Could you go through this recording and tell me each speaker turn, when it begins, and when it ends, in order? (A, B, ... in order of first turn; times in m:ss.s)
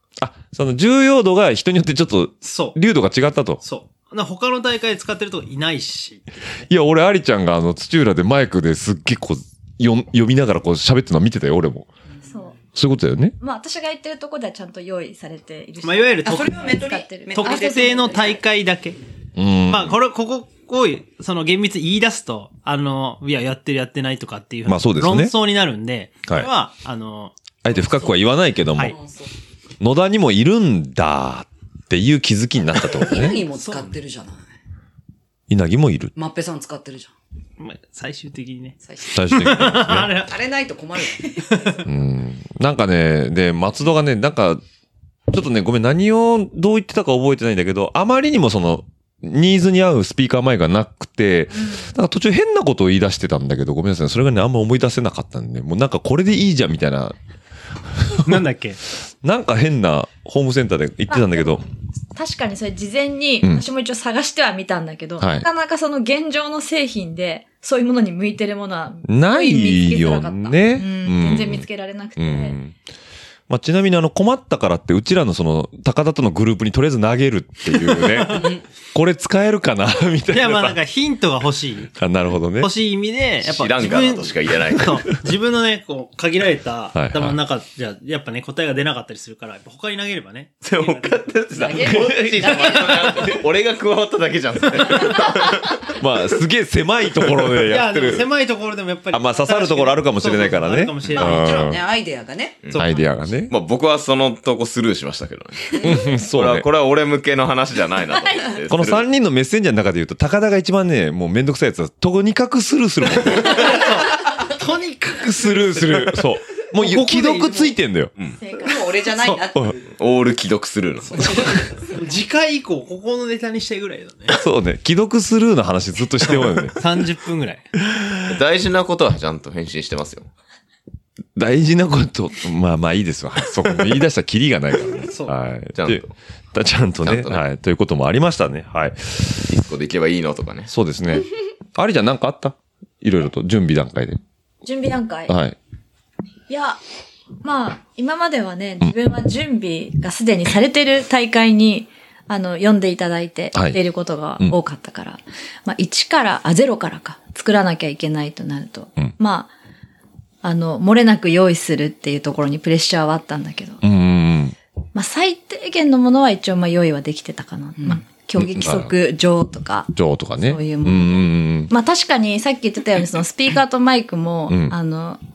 0:00.2-0:03.6 A
0:02.4-0:02.8 B
0:03.6-0:06.7 B
0:06.7-0:11.9 A
0:12.3-0:12.6 C
0:12.7-0:13.4 A
0:13.4-0:18.3 C
0:15.8-0:16.7 B
0:16.2-0:18.3 D
0:17.3-0:19.0 B
0:19.4-0:19.9 A
0:19.7-0:27.3 B
0:24.7-0:25.3 A
0:27.6-0:29.0 A
0:27.7-0:28.2 D
0:28.8-0:29.3 D
0:29.8-0:33.4 A
0:32.9-0:34.4 D
0:33.5-0:33.9 B
0:35.5-0:36.1 A
0:36.2-0:37.1 D
0:37.6-0:38.8 B
0:38.8-0:39.2 D
0:39.1-0:40.1 A
0:39.3-0:40.3 B
0:40.2-0:41.8 D
0:41.5-0:41.8 B
0:41.8-0:44.6 A
0:45.3-0:57.2 A
0:51.6-0:51.9 C
0:57.9-0:58.4 A
0:58.2-0:58.8 B
0:59.2-1:01.6 A
1:01.1-1:01.4 C
1:02.1-1:12.6 C
1:05.2-1:05.4 A
1:09.1-1:11.6 A
1:12.2-1:12.7 A
1:13.5-1:20.8 A
1:18.3-1:18.6 D
1:20.3-1:21.9 B
1:22.0-1:22.7 A
1:22.6-1:33.4 B
1:23.4-1:24.9 E
1:26.9-1:27.4 A
1:30.6-1:35.9 E
1:31.5-1:33.3 D
1:31.9-1:33.1 A
1:36.0-1:38.2 A
1:37.7-1:41.7 B
1:39.1-1:41.8 A
1:41.1-1:43.1 D
1:42.7-1:43.5 A
1:43.5-1:49.0 E
1:45.8-1:46.7 A
1:48.7-1:53.6 A
1:53.4-1:57.7 B
1:55.2-1:58.1 A
1:58.4-1:59.0 C
1:58.5-1:59.9 D
1:59.2-1:59.4 B
2:00.0-2:01.4 E
2:01.1-2:04.4 B
2:01.4-2:02.0 D
2:04.3-2:06.7 A
2:06.3-2:07.6 B
2:07.9-2:08.2 A
2:08.3-2:10.3 E
2:11.4-2:19.5 A
2:15.0-2:15.3 B
2:15.7-2:16.1 E
2:17.0-2:17.4 E
2:19.5-2:20.7 E
2:20.7-2:24.2 A
2:24.6-2:25.3 C
2:25.3-2:25.6 A
2:26.5-2:26.8 C
2:27.4-2:39.5 C
2:40.4-2:43.8 C
2:43.8-2:44.5 A
2:44.9-2:55.2 C
2:48.4-2:48.9 A
2:49.9-2:51.7 A
2:54.5-2:54.7 A